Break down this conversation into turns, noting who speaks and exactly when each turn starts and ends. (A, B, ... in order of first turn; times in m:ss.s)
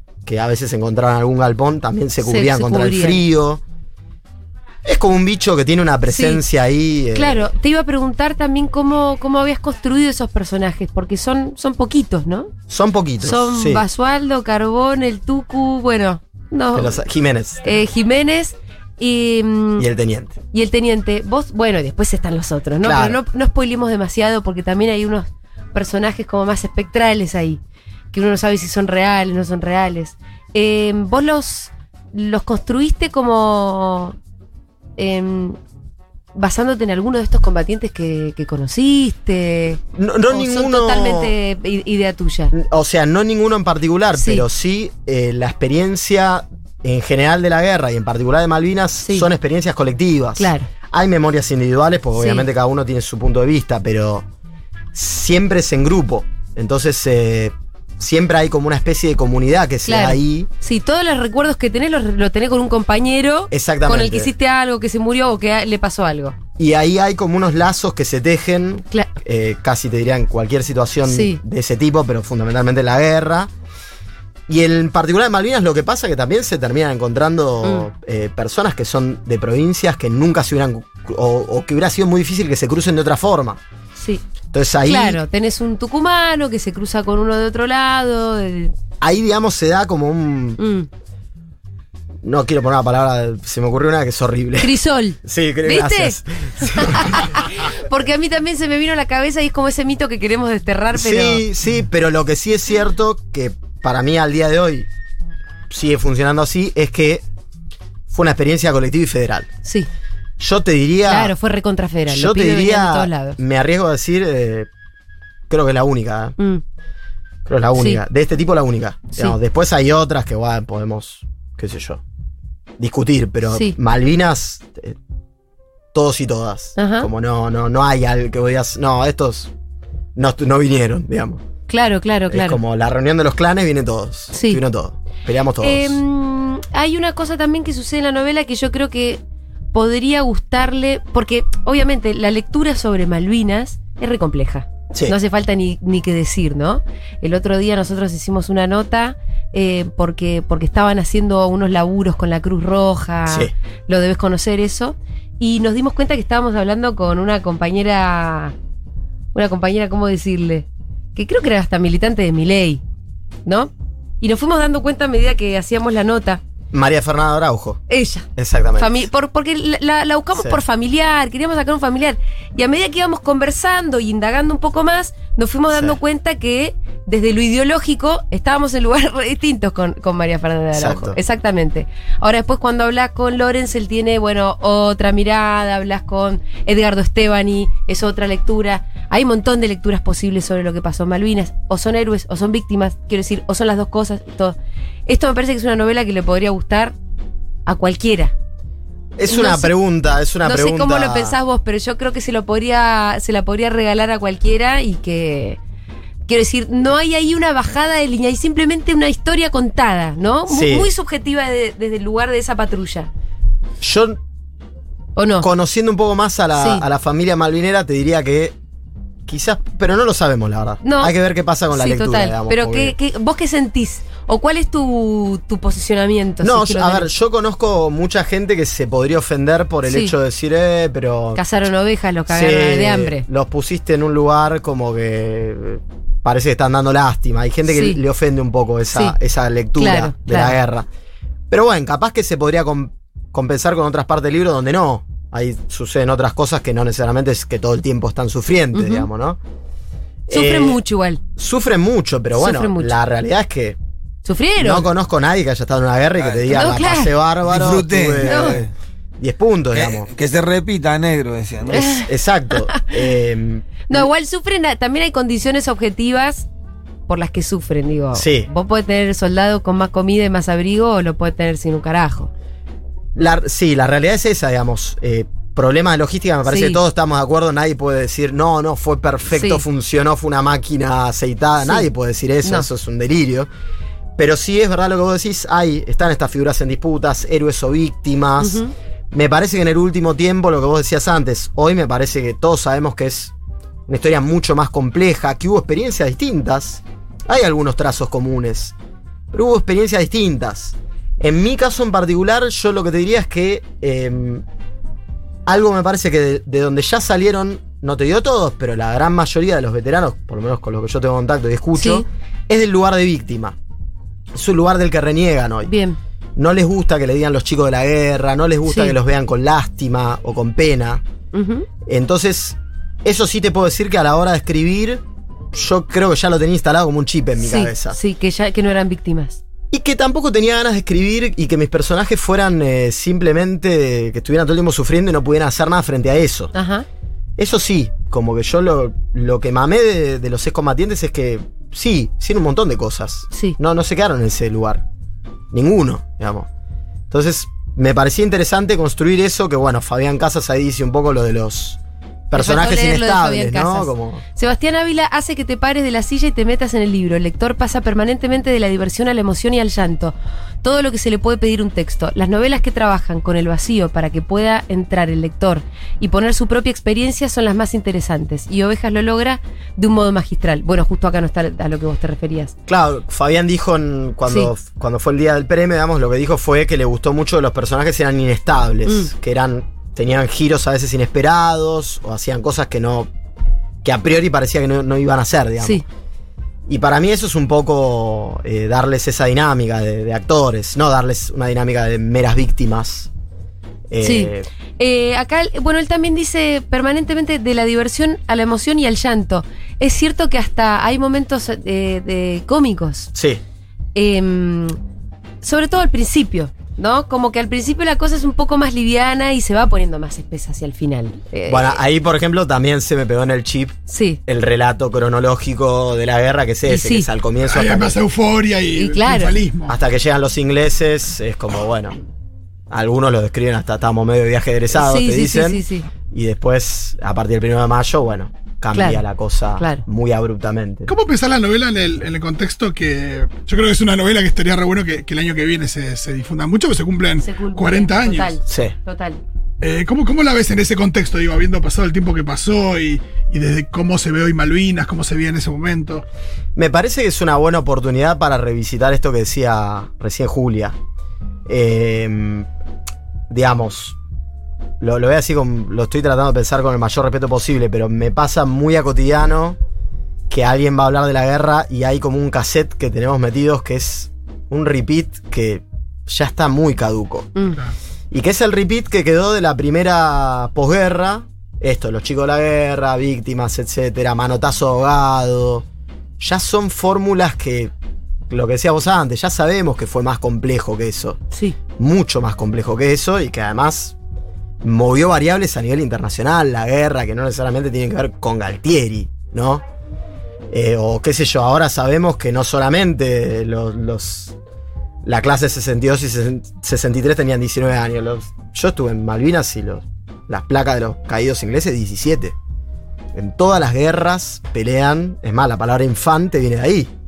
0:00.2-0:03.6 A
0:02.2-0:03.2 B
0:04.8-0:07.5 A
0:06.1-0:06.4 B
0:07.1-0:12.5 B
0:12.7-0:13.8 A
0:13.2-0:17.0 B
0:16.7-0:17.6 A
0:17.6-0:19.9 B
0:19.8-0:20.4 A
0:20.5-0:27.6 B
0:22.8-0:23.2 A
0:28.1-0:34.2 B
0:35.0-0:35.6 B
0:36.4-0:42.5 B
0:39.9-0:41.3 A
0:42.5-0:54.3 A
0:44.2-0:44.5 B
0:50.4-0:50.7 B
0:52.2-0:52.5 B
0:54.9-1:00.5 A
0:59.9-1:06.4 B
1:03.5-1:04.3 A
1:06.6-1:13.5 A
1:11.1-1:11.4 B
1:14.5-1:23.6 A
1:17.6-1:17.9 B
1:24.0-1:24.2 B
1:24.5-1:25.2 A
1:24.8-1:28.7 B
1:29.0-1:30.6 A
1:30.6-1:30.9 B
1:32.2-1:37.3 A
1:34.6-1:41.4 B
1:40.9-1:44.9 A
1:45.7-1:47.2 A
1:48.1-1:49.5 A
1:50.4-1:51.3 A
1:51.1-1:53.4 B
1:52.1-1:54.7 A
1:55.5-1:56.4 A
1:57.5-2:02.0 A
1:57.8-1:58.0 B
2:02.8-2:05.0 A
2:05.9-2:09.5 A
2:06.8-2:07.1 B
2:10.2-2:11.4 A
2:11.7-2:12.6 B
2:12.3-2:16.0 A
2:14.3-2:14.6 B
2:15.6-2:19.2 B
2:19.7-2:38.6 B
2:39.3-2:42.8 B
2:43.4-2:46.4 B
2:46.7-2:47.8 A
2:47.9-3:17.0 B
2:48.4-2:49.0 A
2:55.7-2:56.0 A
3:00.7-3:01.2 A
3:17.7-3:18.3 B
3:19.2-3:21.4 A
3:19.3-3:19.7 B
3:20.4-3:25.6 B
3:26.3-3:33.1 B
3:30.5-3:30.9 A
3:33.8-3:34.2 A
3:35.2-3:35.5 B
3:35.4-3:38.6 A
3:36.6-3:36.8 B
3:39.3-3:43.0 A
3:40.8-3:41.1 B
3:41.7-3:47.1 B
3:46.4-3:51.4 A
3:49.9-3:50.1 B
3:51.4-3:53.2 B
3:52.3-4:00.9 A
3:57.7-3:58.0 B
3:59.8-4:00.6 B
4:01.5-4:09.4 A
4:08.7-4:09.1 B
4:10.3-4:10.8 A
4:10.3-4:11.2 B
4:11.4-4:13.8 A
4:12.4-4:13.0 B
4:14.2-4:14.9 B
4:14.6-4:20.1 A
4:16.2-4:16.5 C
4:16.5-4:17.1 B
4:17.5-4:18.7 C
4:18.2-4:18.6 B
4:19.7-4:21.9 C
4:21.7-4:24.1 A
4:21.7-4:22.9 B
4:23.9-4:26.5 B
4:27.1-4:32.3 B
4:28.1-4:28.5 A
4:33.2-4:43.5 A
4:36.5-4:36.8 B
4:39.3-4:39.6 B
4:44.2-4:53.3 A
4:48.4-4:48.7 B
4:53.9-4:58.8 A
4:59.3-5:04.4 A
5:05.5-5:13.6 A
5:11.8-5:12.1 B
5:14.3-5:15.7 A
5:15.6-5:16.0 B
5:16.4-5:21.0 A
5:18.7-5:19.0 B
5:21.3-5:21.7 B
5:21.8-5:28.0 A
5:27.4-5:29.4 B
5:29.7-5:36.5 A
5:36.5-5:36.8 B
5:37.4-5:44.8 A
5:43.3-5:43.6 B
5:45.5-5:46.5 A
5:47.1-5:54.2 A
5:52.4-6:12.5 B
6:12.7-6:23.1 A
6:18.9-6:19.1 B
6:23.8-6:25.8 A
6:26.7-6:33.1 A
6:33.9-6:34.5 A
6:34.0-6:43.1 B
6:43.1-6:43.4 A
6:44.0-6:44.8 B
6:45.4-6:51.8 B
6:51.5-6:58.0 A
6:53.9-6:54.2 B
6:56.7-6:57.1 B
6:57.4-6:59.8 D
6:58.8-6:59.4 B
6:59.7-7:02.0 A
7:02.7-7:10.9 A
7:04.7-7:05.9 B
7:08.7-7:09.0 B
7:09.6-7:09.8 B
7:10.9-7:18.4 D
7:17.2-7:19.2 B
7:18.5-7:18.8 A
7:19.6-7:26.0 D
7:26.6-7:30.8 A
7:31.5-7:32.5 A
7:33.3-7:34.0 A
7:34.8-7:39.6 A
7:40.3-7:47.3 A
7:47.4-7:47.6 B
7:48.1-7:55.7 A
7:56.2-7:57.7 A
7:58.3-8:01.2 A
8:01.8-8:04.0 A
8:04.6-8:09.6 A
8:10.5-8:14.4 A
8:15.0-8:22.4 A
8:23.1-8:26.9 A